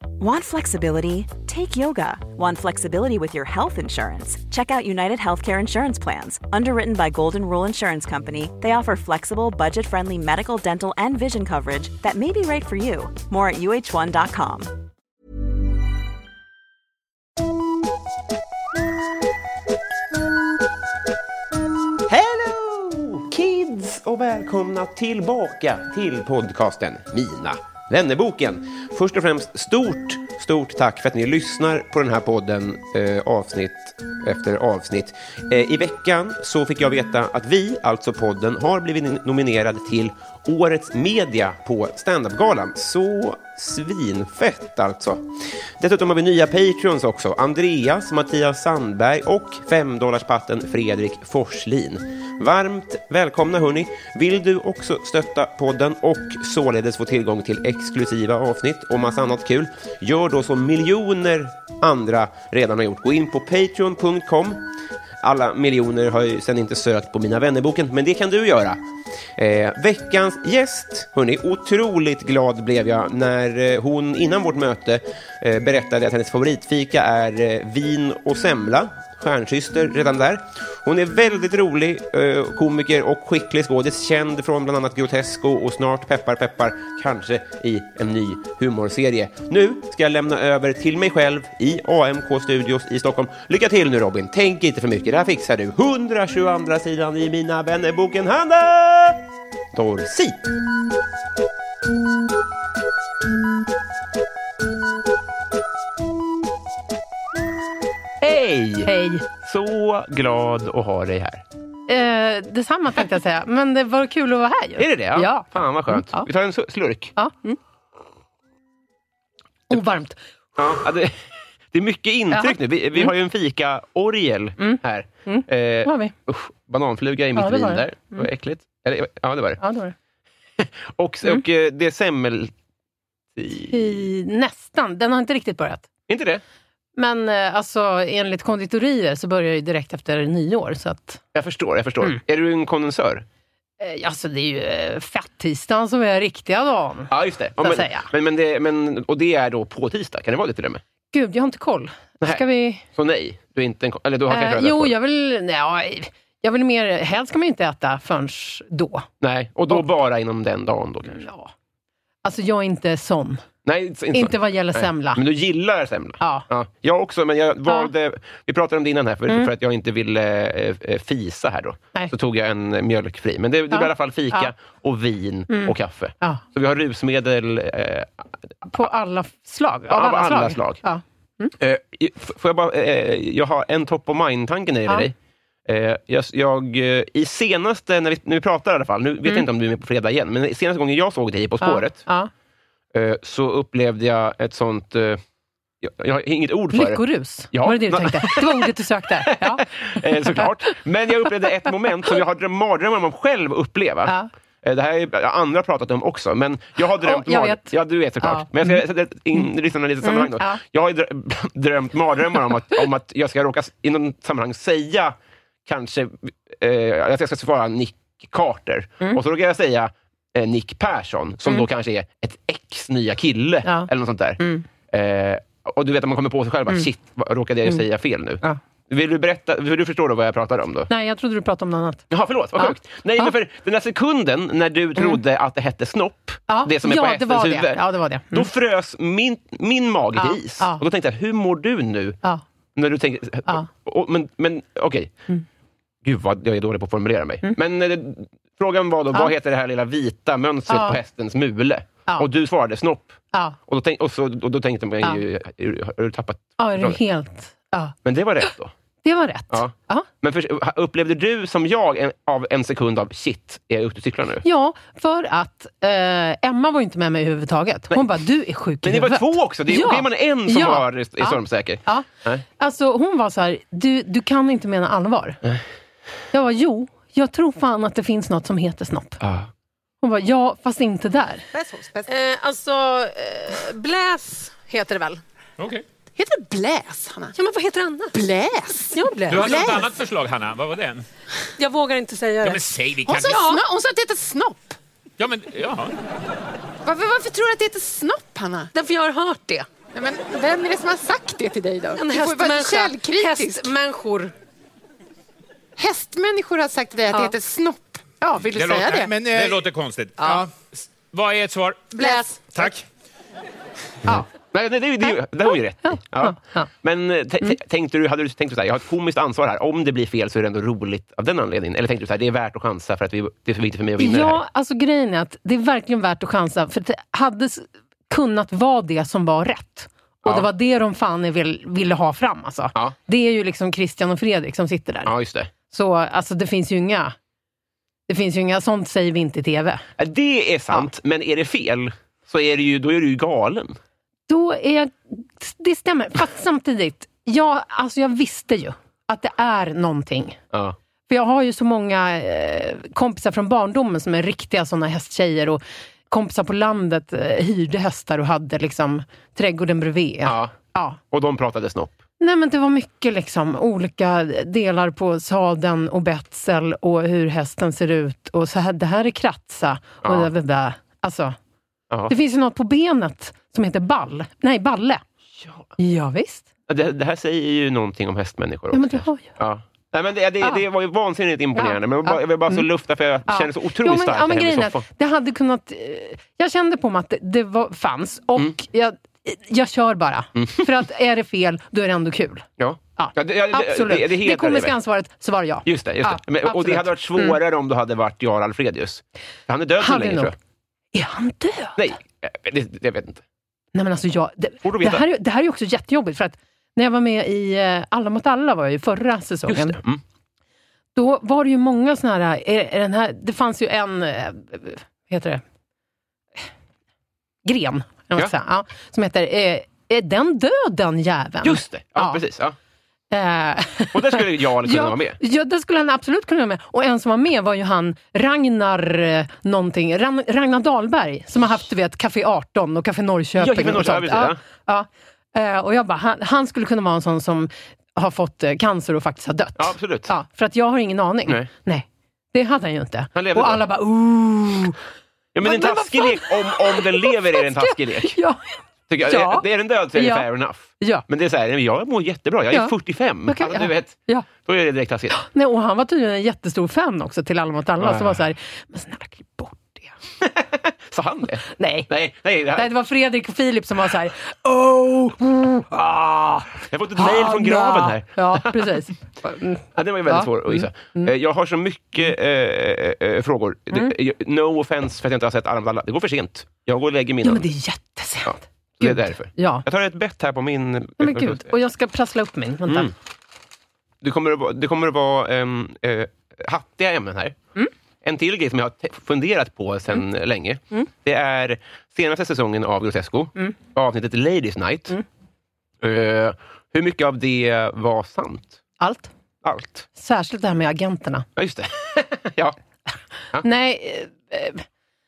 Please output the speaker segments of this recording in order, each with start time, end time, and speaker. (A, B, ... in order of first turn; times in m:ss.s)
0:00.2-0:14.7 A
0:22.1-1:04.7 B
1:05.2-1:08.8 B
1:09.4-1:40.5 B
1:48.2-1:51.4 B
1:48.8-1:49.2 C
1:51.9-1:56.3 C
1:54.8-1:57.1 B
1:57.2-1:57.6 C
1:59.7-2:00.2 C
2:00.6-2:09.6 B
2:02.3-2:03.1 C
2:04.6-2:06.1 C
2:07.3-2:08.2 C
2:09.6-2:09.9 C
2:10.6-2:12.5 B
2:13.3-2:13.8 B
2:13.6-2:15.9 C
2:16.1-2:16.4 B
2:17.0-2:21.2 C
2:21.3-2:23.2 B
2:23.8-2:28.1 C
2:27.1-2:30.8 B
2:31.1-2:32.8 C
2:32.2-2:34.9 B
2:34.3-2:39.0 C
2:39.2-2:41.2 B
2:41.1-2:41.5 C
2:42.2-2:43.4 C
2:43.6-2:58.3 B
2:44.1-2:45.2 C
2:46.2-2:46.5 C
2:53.7-2:54.5 C
2:55.5-2:56.4 C
2:58.6-3:01.5 C
2:59.9-3:00.8 B
3:01.6-3:05.1 B
3:05.6-3:12.0 B
3:11.6-3:12.3 C
3:12.9-3:15.2 B
3:15.8-3:18.7 B
3:16.7-3:20.7 C
3:19.2-3:35.1 B
3:27.0-3:28.8 C
3:30.0-3:30.6 C
3:35.6-3:50.9 B
3:43.6-3:44.6 C
3:50.9-3:52.0 C
3:52.1-4:02.2 B
3:52.6-3:53.3 C
3:56.5-3:58.5 C
4:00.2-4:00.8 C
4:02.8-4:05.2 B
4:06.0-4:17.0 B
4:10.7-4:11.0 C
4:16.6-4:17.9 C
4:18.0-4:18.7 B
4:19.0-4:20.1 C
4:19.5-4:24.4 B
4:24.4-4:35.4 C
4:28.8-4:32.4 B
4:36.3-4:39.2 C
4:39.2-4:39.5 B
4:40.0-4:41.5 C
4:41.5-4:42.1 D
4:42.1-4:45.2 C
4:45.6-4:45.8 E
4:46.2-4:47.3 D
4:47.4-4:48.2 C
4:48.1-4:49.9 D
4:48.9-4:49.6 C
4:49.3-4:51.0 E
4:51.6-4:52.6 C
4:52.4-4:53.4 E
4:53.0-4:54.8 D
4:53.2-4:53.6 C
4:55.2-4:56.0 E
4:56.8-4:58.7 D
4:58.7-4:59.6 C
4:59.9-5:03.8 D
5:01.9-5:04.3 C
5:05.8-5:09.3 D
5:08.5-5:11.9 E
5:11.9-5:12.6 D
5:12.5-5:12.8 E
5:14.0-5:24.4 B
5:15.8-5:16.7 C
5:24.0-5:35.1 C
5:35.0-5:35.5 B
5:35.7-5:37.1 C
5:38.1-5:39.8 C
5:40.0-5:43.8 B
5:44.3-5:50.4 C
5:51.1-6:01.0 C
6:00.2-6:00.5 B
6:01.1-6:02.0 B
6:02.2-6:11.4 C
6:10.0-6:10.3 B
6:12.1-6:15.0 C
6:15.4-6:15.6 B
6:15.8-6:16.5 C
6:16.7-6:24.8 B
6:18.7-6:19.3 C
6:21.5-6:22.6 C
6:23.2-6:37.4 C
6:30.4-6:30.7 B
6:32.6-6:34.8 B
6:35.6-6:40.3 B
6:39.8-6:40.3 C
6:40.9-6:41.9 C
6:41.8-6:43.2 B
6:43.7-6:49.8 C
6:44.6-6:45.0 B
6:49.5-6:50.0 B
6:50.9-6:55.4 C
6:57.4-7:02.2 C
7:01.4-7:02.6 B
7:03.1-7:24.8 C
7:03.9-7:05.2 B
7:13.4-7:14.4 B
7:19.6-7:20.1 B
7:23.1-7:23.6 B
7:25.3-7:28.2 B
7:25.4-7:30.3 C
7:28.9-7:35.1 B
7:30.8-7:31.0 C
7:33.2-7:34.3 C
7:35.1-7:39.9 C
7:37.8-7:38.3 B
7:40.2-7:42.7 B
7:41.5-7:41.9 C
7:42.5-7:51.1 C
7:46.7-7:48.8 B
7:49.7-7:57.4 B
7:57.2-7:59.6 C
7:58.2-8:01.5 B
8:01.0-8:02.9 C
8:02.7-8:02.9 B
8:04.0-8:07.4 B
8:08.0-8:15.0 B
8:15.8-8:18.6 B
8:18.8-8:19.1 C
8:19.4-8:19.8 B
8:19.9-8:21.3 C
8:21.4-8:22.6 B
8:23.3-8:24.6 C